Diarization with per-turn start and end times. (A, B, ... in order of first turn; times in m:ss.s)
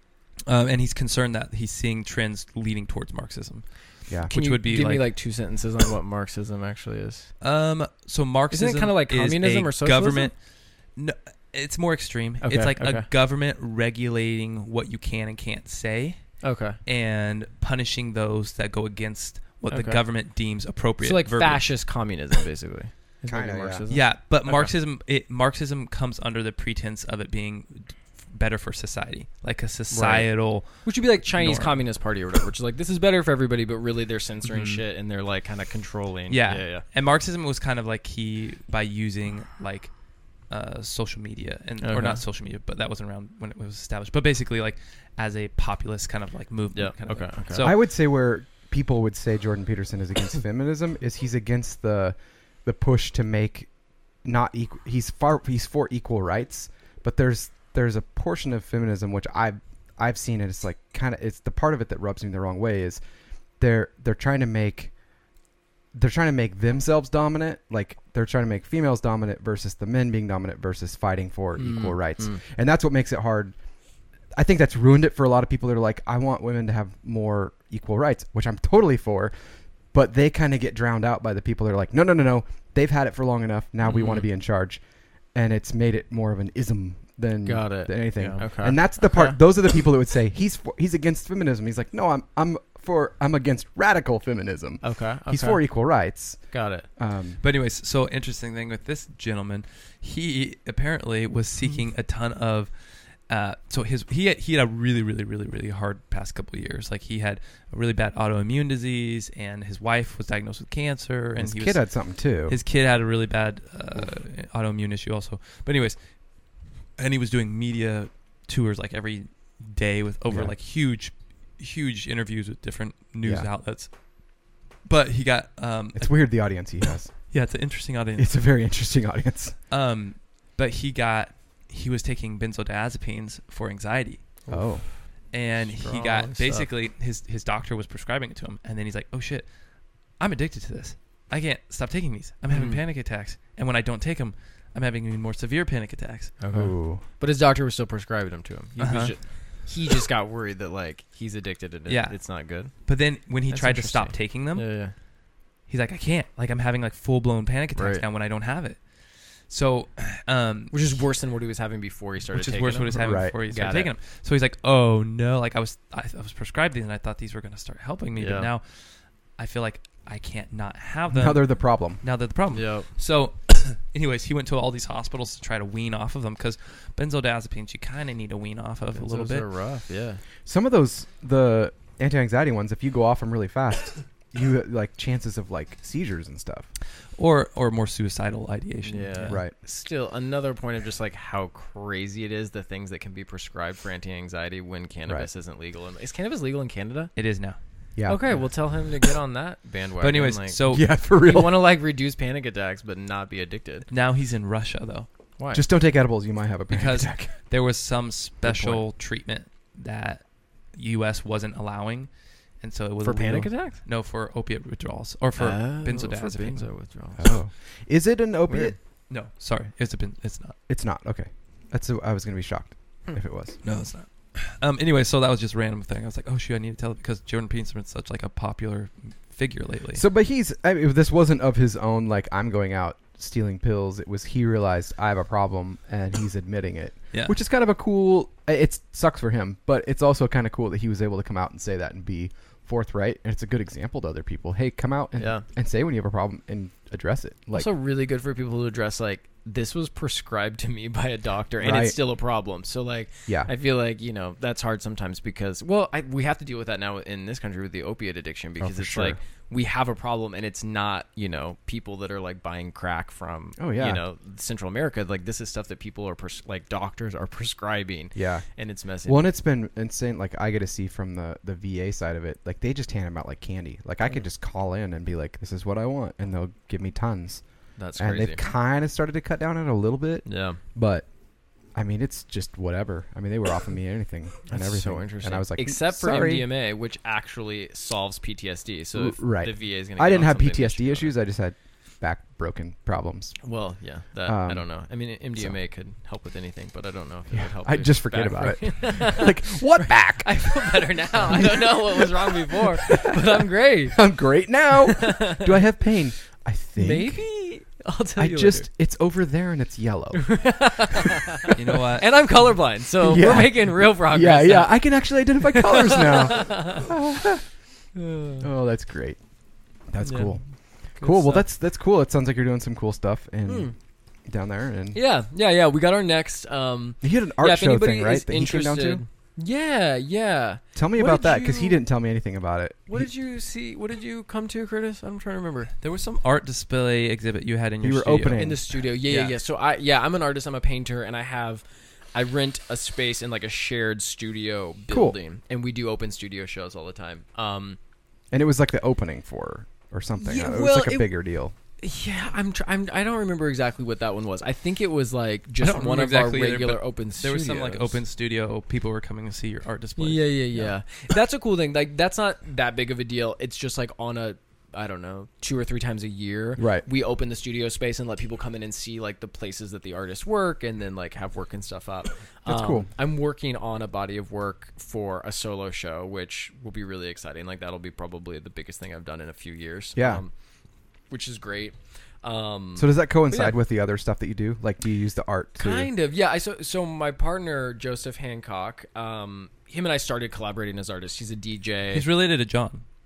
0:00.5-0:05.1 A
0:04.3-0:07.3 B
0:07.4-0:21.7 A
0:08.5-0:10.3 B
0:12.4-0:13.1 B
0:16.4-0:16.8 B
0:19.7-0:20.0 B
0:21.0-0:24.7 B
0:23.3-0:23.8 C
0:23.9-0:31.8 A
0:29.9-0:36.8 B
0:34.4-0:34.8 A
0:36.3-0:39.9 A
0:40.5-0:47.8 A
0:41.8-0:42.2 B
0:46.7-0:47.7 B
0:47.6-0:53.7 C
0:54.2-1:03.0 C
1:03.6-1:04.9 C
1:05.9-1:13.5 C
1:11.6-1:12.4 B
1:14.4-1:19.3 C
1:19.9-1:24.8 C
1:23.8-1:24.3 B
1:25.3-1:37.4 C
1:27.4-1:29.4 B
1:34.8-1:35.7 B
1:36.5-1:36.9 B
1:37.4-1:42.7 A
1:43.3-1:51.8 A
1:51.4-1:52.6 C
1:52.5-1:56.0 A
1:57.0-2:03.9 A
2:00.3-2:00.5 C
2:03.2-2:03.5 C
2:04.8-2:06.7 A
2:05.9-2:07.1 C
2:07.3-2:08.4 A
2:08.2-2:09.6 C
2:09.7-2:14.2 A
2:14.5-2:14.9 B
2:14.5-2:14.9 C
2:15.3-2:19.5 A
2:15.7-2:16.7 B
2:20.2-2:26.4 A
2:22.5-2:22.8 B
2:26.4-2:32.7 B
2:26.5-2:27.0 C
2:28.8-2:29.1 A
2:31.9-2:34.7 A
2:33.5-2:34.9 B
2:35.7-2:38.8 A
2:37.7-2:38.0 B
2:39.4-2:41.0 A
2:40.7-2:42.9 B
2:42.3-2:48.6 A
2:42.9-2:43.4 C
2:43.5-2:43.9 B
2:48.2-2:48.5 B
2:49.4-2:59.5 A
2:51.1-2:52.0 C
2:52.5-2:52.9 B
2:58.9-3:00.2 B
3:00.4-3:06.7 C
3:07.2-3:09.4 A
3:08.8-3:17.1 B
3:09.3-3:09.5 C
3:17.2-3:17.6 A
3:18.0-3:18.3 C
3:18.0-3:23.9 B
3:20.0-3:20.9 A
3:20.7-3:21.7 C
3:23.9-3:25.1 A
3:25.4-3:25.6 B
3:25.5-3:27.3 C
3:26.7-3:32.1 A
3:28.5-3:28.8 C
3:28.5-3:28.8 B
3:32.6-3:36.7 A
3:33.0-3:33.8 B
3:35.4-3:37.3 B
3:37.2-3:38.8 C
3:38.5-3:38.7 B
3:39.1-3:40.6 A
3:40.7-3:43.6 C
3:43.6-3:50.0 A
3:49.9-4:07.7 C
4:05.2-4:05.4 B
4:07.5-4:29.3 B
4:11.6-4:12.0 C
4:18.6-4:19.2 C
4:23.6-4:24.0 C
4:28.1-4:28.4 C
4:29.0-4:37.4 C
4:37.8-4:38.4 B
4:38.0-4:41.1 C
4:40.2-4:40.6 B
4:41.7-4:46.5 C
4:44.5-4:51.1 B
4:48.9-4:53.4 C
4:53.4-5:04.0 B
4:54.2-4:54.7 C
4:57.3-5:07.2 C
5:04.9-5:05.6 B
5:06.8-5:08.7 B
5:08.2-5:10.5 C
5:10.1-5:16.9 B
5:11.5-5:12.1 A
5:13.0-5:17.4 C
5:17.9-5:18.5 B
5:18.4-5:19.2 C
5:19.9-5:20.4 C
5:20.0-5:20.4 B
5:20.9-5:21.5 B
5:21.0-5:23.7 C
5:23.4-5:23.7 B
5:24.3-5:25.0 C
5:24.9-5:31.8 B
5:27.0-5:29.0 C
5:30.7-5:33.1 C
5:32.9-5:35.7 B
5:35.8-5:38.5 A
5:37.8-5:38.6 C
5:38.3-5:47.8 B
5:39.0-5:39.4 A
5:44.9-5:45.2 C
5:48.3-5:51.5 C
5:50.2-5:51.1 B
5:51.8-5:58.0 B
5:55.6-6:00.7 A
6:00.0-6:20.3 B
6:06.6-6:06.8 C
6:12.4-6:12.9 C
6:20.0-6:20.2 C
6:21.1-6:23.6 B
6:22.8-6:25.9 C
6:25.6-6:32.0 B
6:31.9-6:32.8 A